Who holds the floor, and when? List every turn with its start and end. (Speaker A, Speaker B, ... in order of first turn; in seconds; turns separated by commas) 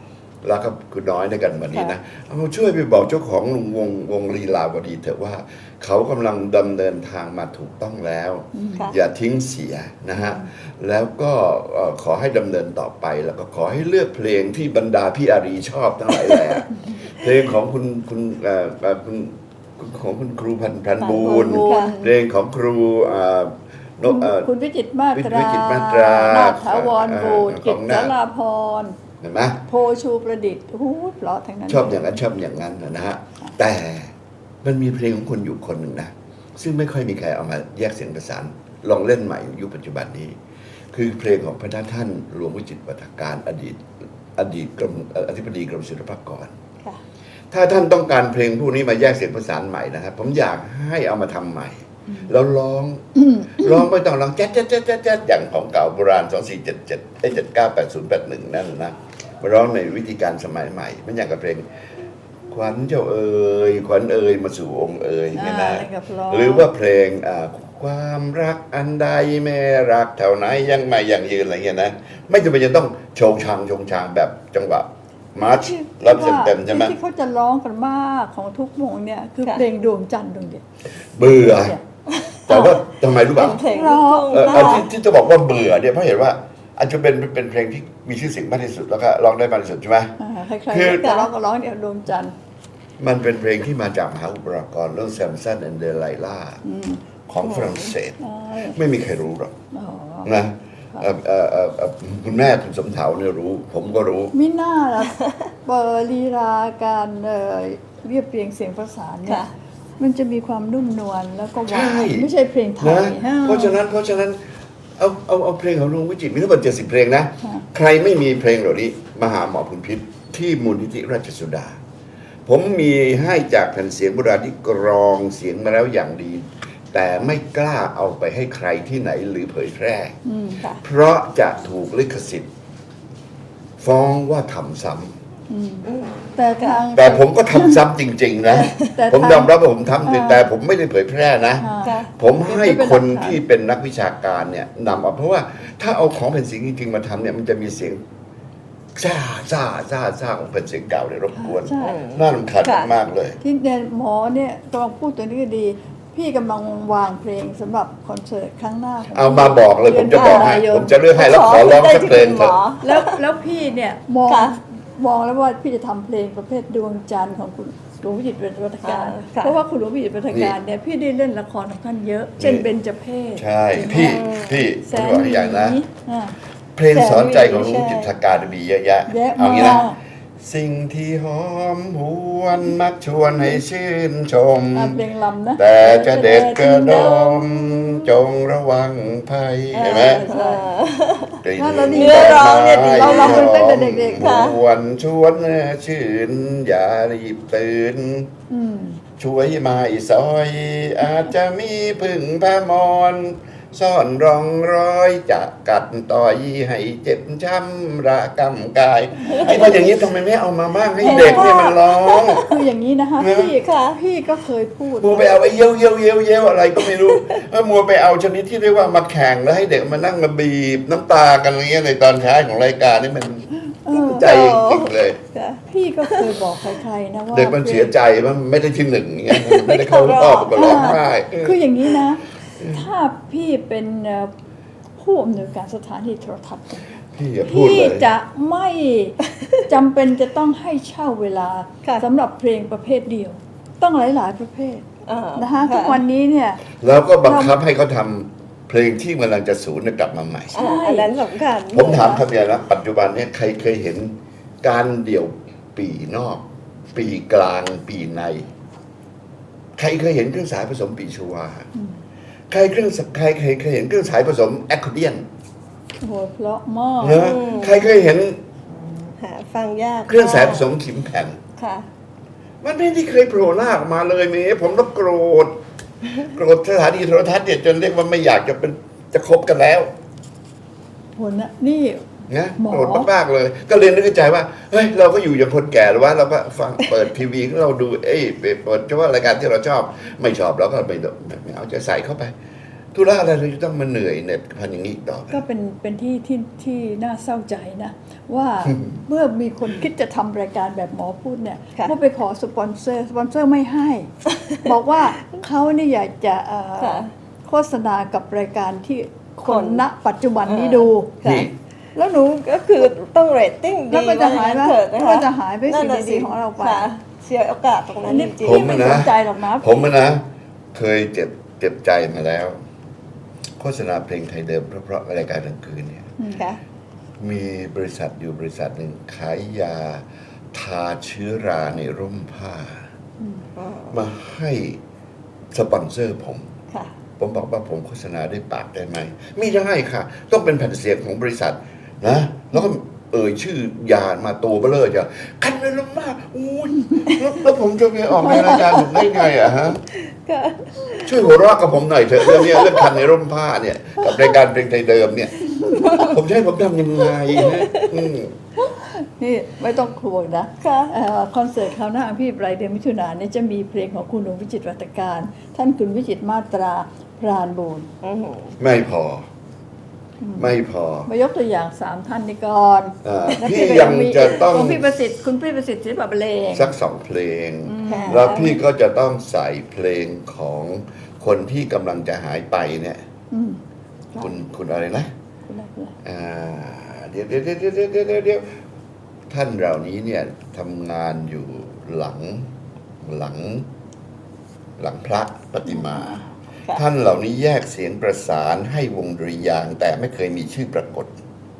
Speaker A: 0.4-24.5, Speaker B: 8.5-8.9, Speaker B: 10.1-10.4, Speaker C: 21.0-21.9, Speaker B: 21.2-22.1, Speaker B: 24.0-28.9, Speaker A: 25.1-28.1, Speaker A: 29.2-29.6, Speaker B: 29.7-32.2, Speaker A: 31.7-34.1, Speaker A: 34.6-40.4, Speaker A: 40.9-43.8, Speaker A: 44.3-46.5, Speaker A: 47.5-61.6, Speaker B: 53.2-53.8, Speaker A: 62.5-76.9, Speaker B: 65.3-66.7, Speaker B: 75.4-80.6, Speaker A: 81.2-81.8, Speaker B: 81.4-81.8, Speaker C: 82.2-82.6, Speaker A: 82.5-83.6, Speaker C: 83.3-84.9, Speaker B: 83.4-84.8, Speaker A: 84.3-90.1, Speaker B: 90.2-92.3, Speaker A: 90.7-91.0, Speaker C: 91.0-91.3, Speaker A: 93.0-96.6, Speaker B: 96.6-97.0, Speaker A: 97.3-99.5, Speaker C: 97.4-97.9, Speaker B: 98.2-98.8, Speaker B: 99.7-100.3, Speaker A: 100.2-104.3, Speaker B: 104.3-109.4, Speaker C: 109.2-109.5, Speaker B: 110.0-113.8, Speaker A: 111.7-112.3, Speaker A: 112.8-114.4, Speaker A: 115.0-121.8, Speaker A: 122.5-130.1, Speaker B: 130.2-130.6, Speaker A: 130.8-132.5, Speaker A: 133.8-135.2, Speaker B: 135.5-137.8, Speaker C: 135.8-136.8, Speaker A: 136.9-148.0, Speaker B: 138.5-139.5, Speaker B: 140.0-140.4, Speaker B: 141.6-143.4, Speaker C: 141.8-142.1, Speaker A: 148.9-153.4, Speaker B: 151.3-152.0, Speaker C: 151.8-152.9, Speaker B: 153.4-161.0, Speaker A: 159.1-162.6, Speaker C: 160.1-160.6, Speaker C: 161.1-163.2, Speaker B: 162.8-174.2, Speaker C: 164.3-164.6, Speaker C: 168.8-169.6, Speaker A: 170.3-170.5, Speaker A: 172.4-172.7, Speaker A: 173.3-175.8, Speaker C: 173.9-174.7, Speaker B: 174.8-176.3, Speaker A: 176.8-179.9, Speaker C: 176.9-178.1, Speaker B: 179.1-180.0, Speaker A: 180.4-185.0, Speaker B: 184.7-188.1, Speaker A: 185.6-190.2, Speaker C: 189.7-191.4, Speaker B: 190.0-190.6, Speaker A: 191.4-198.3, Speaker B: 191.6-194.3, Speaker C: 191.9-193.5, Speaker C: 194.2-194.6, Speaker B: 198.5-199.0, Speaker A: 199.2-212.4, Speaker C: 209.3-209.8, Speaker B: 209.3-209.7, Speaker B: 211.0-211.6, Speaker C: 211.0-212.6, Speaker B: 212.4-215.4, Speaker A: 213.2-213.5, Speaker C: 213.6-214.0, Speaker A: 215.0-225.2, Speaker C: 216.9-217.2, Speaker B: 223.8-224.3, Speaker C: 224.1-226.4, Speaker B: 225.7-227.9, Speaker A: 227.3-231.6, Speaker C: 229.3-231.0, Speaker B: 230.5-234.3, Speaker B: 235.0-236.9, Speaker A: 237.1-238.1, Speaker B: 237.4-246.6, Speaker C: 245.1-246.0, Speaker A: 246.8-250.5, Speaker B: 247.2-247.6, Speaker C: 250.5-252.1, Speaker B: 250.5-251.1, Speaker A: 251.7-258.5, Speaker B: 251.8-252.2, Speaker A: 259.8-261.7, Speaker A: 262.5-265.2, Speaker B: 266.0-267.9, Speaker A: 267.0-268.4, Speaker C: 267.1-267.9, Speaker C: 269.2-270.7, Speaker A: 270.1-271.4, Speaker C: 271.6-271.9, Speaker A: 272.6-275.5, Speaker A: 276.2-279.9, Speaker B: 281.1-283.1, Speaker A: 282.3-292.3, Speaker A: 292.9-295.4, Speaker B: 295.3-304.1, Speaker B: 304.6-311.1, Speaker C: 306.8-307.1, Speaker C: 309.5-309.8, Speaker C: 310.4-311.5, Speaker A: 311.2-311.5, Speaker B: 311.9-312.5, Speaker C: 312.4-318.8, Speaker B: 313.9-316.9, Speaker B: 318.0-319.9, Speaker A: 318.4-322.6, Speaker A: 323.6-326.1, Speaker B: 326.2-326.4, Speaker A: 327.2-332.8, Speaker B: 333.2-333.4, Speaker C: 333.6-334.0, Speaker A: 333.9-334.8, Speaker A: 335.5-336.5, Speaker A: 337.2-349.8, Speaker C: 348.4-349.2, Speaker C: 350.1-351.2, Speaker A: 351.0-358.4, Speaker C: 352.2-353.0, Speaker C: 355.6-356.1, Speaker C: 357.2-357.9, Speaker B: 358.9-367.9, Speaker C: 360.6-360.9, Speaker C: 368.0-368.5, Speaker A: 368.6-369.2, Speaker B: 370.2-370.6, Speaker A: 370.4-371.1, Speaker B: 371.1-376.7, Speaker A: 373.0-374.9, Speaker A: 376.5-383.0, Speaker B: 377.6-378.6, Speaker C: 377.9-378.6, Speaker B: 383.3-383.6, Speaker A: 384.2-385.1, Speaker B: 385.5-385.9, Speaker A: 386.0-388.6, Speaker A: 389.3-392.5, Speaker A: 393.0-393.7, Speaker A: 394.8-396.2, Speaker B: 395.6-396.3, Speaker A: 396.7-401.2